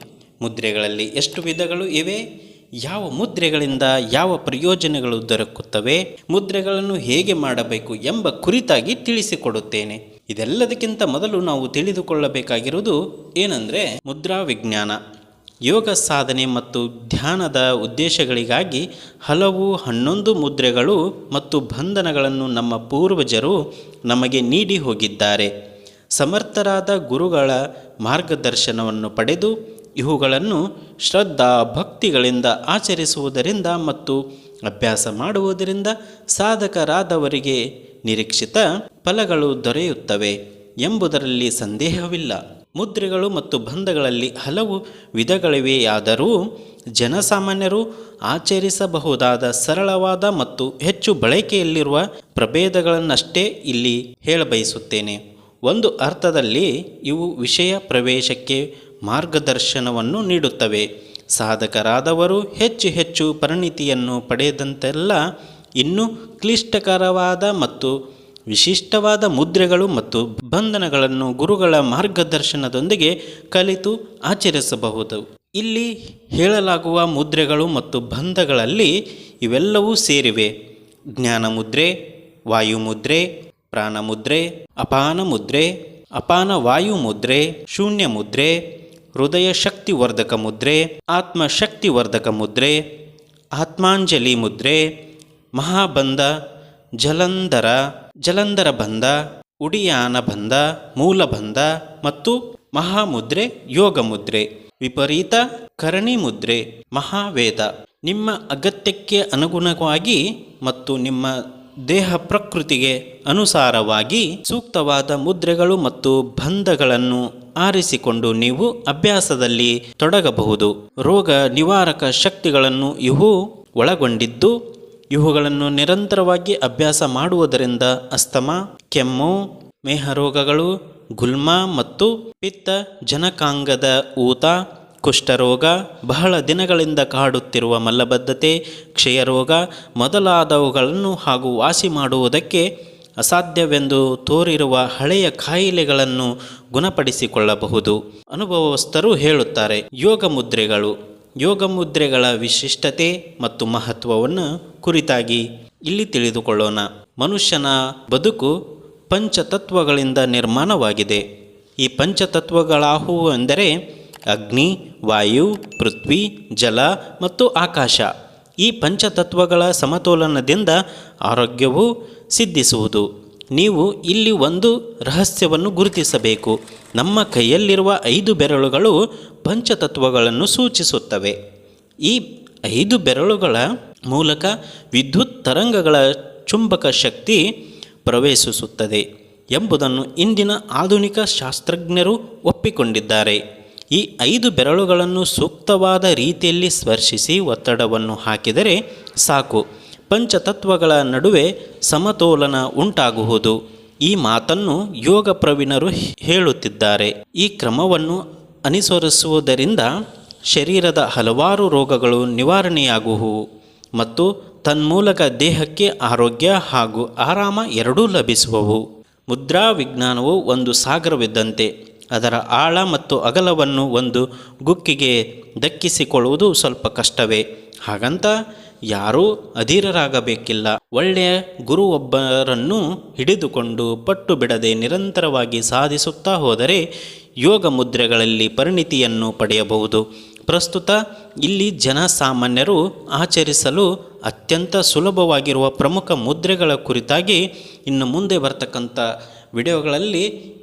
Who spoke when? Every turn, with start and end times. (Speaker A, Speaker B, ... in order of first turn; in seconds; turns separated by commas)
Speaker A: 0.4-2.2, Speaker A: 2.8-15.0, Speaker A: 15.7-23.6, Speaker A: 24.1-25.5, Speaker A: 26.1-46.3, Speaker A: 47.0-65.2, Speaker A: 65.8-67.9, Speaker A: 68.5-78.9, Speaker A: 79.4-80.5, Speaker A: 81.2-81.9, Speaker A: 82.5-88.6, Speaker A: 89.2-92.8, Speaker A: 93.6-94.8, Speaker A: 95.6-96.3, Speaker A: 97.0-111.3, Speaker A: 111.9-124.5, Speaker A: 125.1-142.6, Speaker A: 143.2-158.5, Speaker A: 159.1-161.2, Speaker A: 161.8-163.7, Speaker A: 164.3-168.1, Speaker A: 168.6-181.3, Speaker A: 182.0-187.4, Speaker A: 188.1-189.0, Speaker A: 189.5-193.4, Speaker A: 193.9-209.9, Speaker A: 210.5-213.4, Speaker A: 214.0-228.3, Speaker A: 228.9-236.8, Speaker A: 237.4-250.2